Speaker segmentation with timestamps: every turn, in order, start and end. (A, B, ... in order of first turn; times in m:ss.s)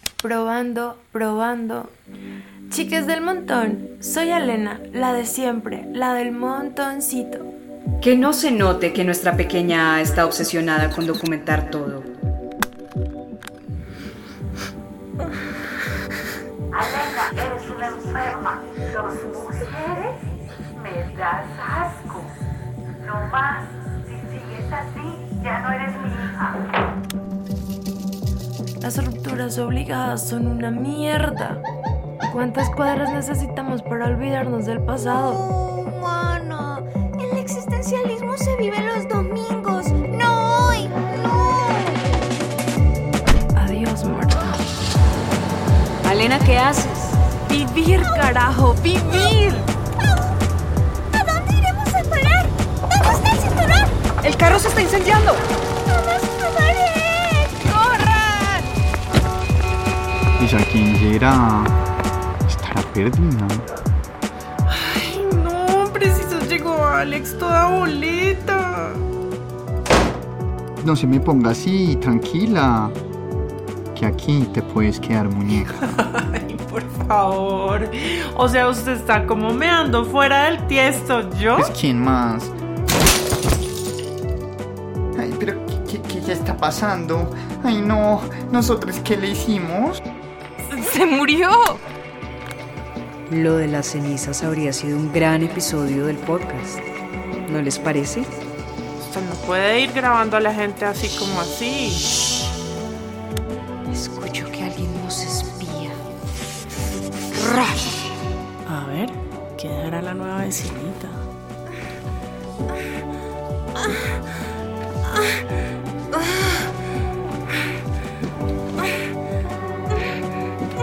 0:00.2-0:01.9 A
0:02.7-0:07.5 A
0:08.0-0:12.1 B
0:17.0-0:20.2 C
0:20.8-0:22.2 C
0:23.1-0:26.6 C
0:28.8-0:31.6 A
0:32.3-0:35.5 A
0:36.0-0:36.5 D
0:37.2-0:42.0 D
0:43.5-0:44.6 A
0:46.0-0:47.2 B
0:47.4-0:49.7 A
0:51.1-0:53.9 D
0:54.2-0:55.4 B
0:55.9-0:58.7 D
1:00.4-1:01.7 E
1:02.5-1:03.6 E
1:04.7-1:09.0 F
1:10.8-1:13.0 E
1:13.9-1:16.0 E
1:15.9-1:21.7 F
1:21.6-1:22.5 E
1:25.1-1:30.0 E
1:31.2-1:31.6 F
1:33.3-1:36.8 B
1:37.4-1:38.3 B
1:39.0-1:42.0 F
1:43.9-1:45.9 B
1:47.4-1:47.7 B
1:48.7-1:51.1 G